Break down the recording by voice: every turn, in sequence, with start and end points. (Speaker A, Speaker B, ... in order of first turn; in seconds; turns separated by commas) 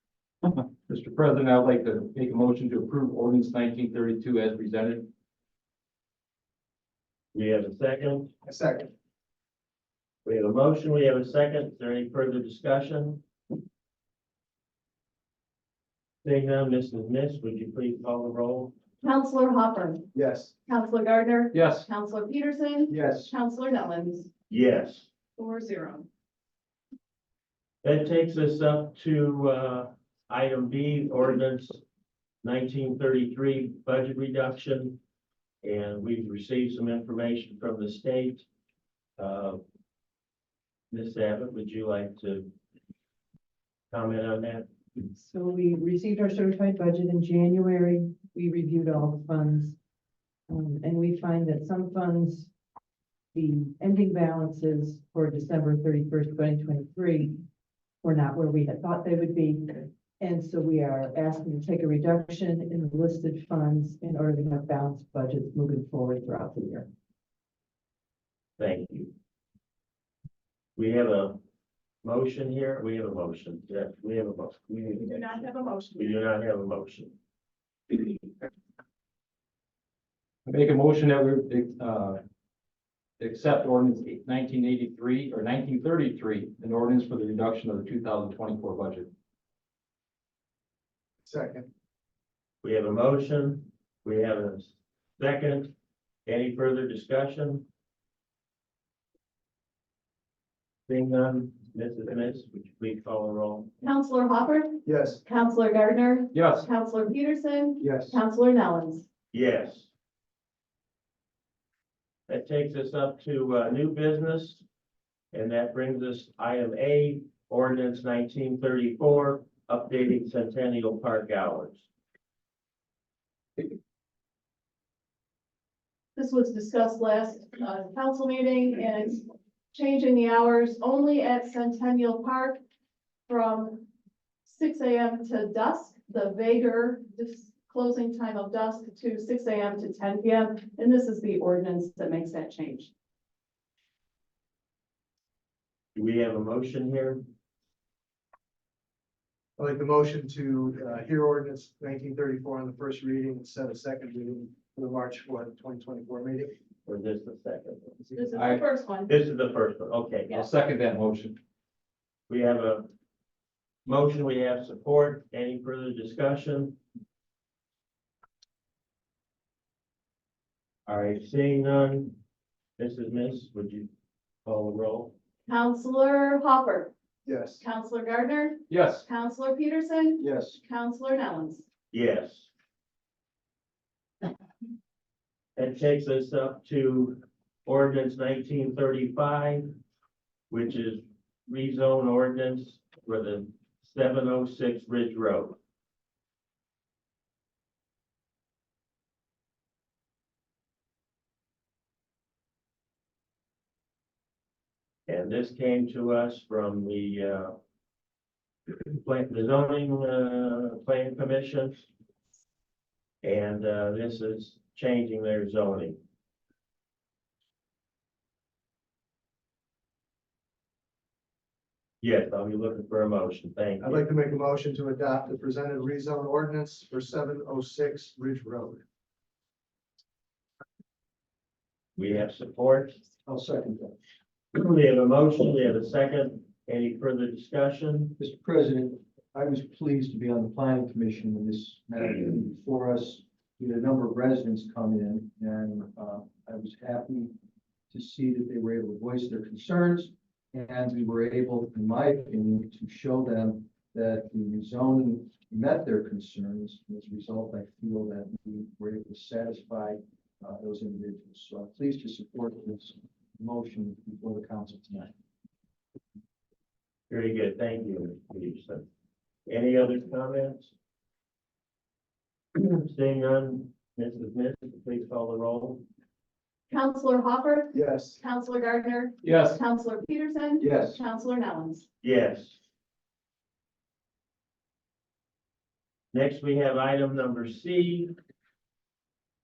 Speaker A: 0.5-5.1, Speaker B: 7.3-8.3, Speaker C: 8.5-8.9, Speaker B: 10.2-13.2, Speaker B: 16.2-18.8, Speaker D: 19.0-20.1, Speaker C: 20.1-20.5, Speaker D: 20.7-24.3, Speaker A: 21.5-21.9, Speaker C: 22.9-23.3, Speaker B: 24.5-25.1, Speaker D: 25.4-26.1, Speaker B: 27.8-31.8, Speaker B: 32.4-35.0, Speaker B: 35.6-38.5, Speaker B: 39.2-39.6, Speaker B: 40.9-42.5, Speaker B: 43.9-44.7, Speaker E: 45.0-49.8, Speaker E: 50.5-52.5, Speaker E: 53.3-57.4, Speaker E: 58.0-66.9, Speaker B: 68.6-69.1, Speaker B: 70.8-71.4, Speaker B: 72.0-77.2, Speaker D: 75.0-76.2, Speaker A: 80.5-82.2, Speaker A: 83.2-89.1, Speaker C: 91.2-91.7, Speaker B: 92.6-95.7, Speaker B: 96.3-97.7, Speaker B: 100.9-103.7, Speaker D: 103.8-109.1, Speaker C: 104.8-105.2, Speaker A: 106.3-106.7, Speaker C: 107.8-108.2, Speaker B: 109.3-109.9, Speaker B: 112.3-114.6, Speaker B: 115.3-121.9, Speaker D: 126.2-132.6, Speaker D: 133.3-133.9, Speaker D: 134.5-142.9, Speaker B: 145.9-147.2, Speaker C: 149.6-156.6, Speaker B: 156.9-158.0, Speaker D: 158.2-159.1, Speaker A: 158.3-158.7, Speaker B: 159.1-160.4, Speaker A: 160.3-161.4, Speaker B: 162.3-162.9, Speaker B: 163.8-166.8, Speaker B: 170.9-172.2, Speaker B: 172.8-173.9, Speaker B: 174.4-175.2, Speaker D: 175.5-176.9, Speaker C: 177.2-177.6, Speaker D: 177.6-181.7, Speaker A: 178.7-179.1, Speaker F: 180.2-180.6, Speaker B: 181.9-182.5, Speaker B: 185.6-189.8, Speaker B: 190.5-195.6, Speaker B: 205.1-207.6, Speaker B: 208.8-211.9, Speaker B: 213.2-216.0, Speaker B: 222.0-224.0, Speaker C: 223.8-228.8, Speaker B: 232.0-233.0, Speaker F: 233.3-234.0, Speaker B: 234.5-238.2, Speaker F: 238.2-247.3, Speaker F: 247.9-265.1, Speaker B: 267.1-268.9, Speaker B: 269.5-270.7, Speaker B: 272.6-275.8, Speaker D: 276.7-281.9, Speaker C: 277.7-278.2, Speaker A: 279.2-279.6, Speaker F: 280.6-281.0, Speaker B: 282.0-282.6, Speaker B: 286.1-288.2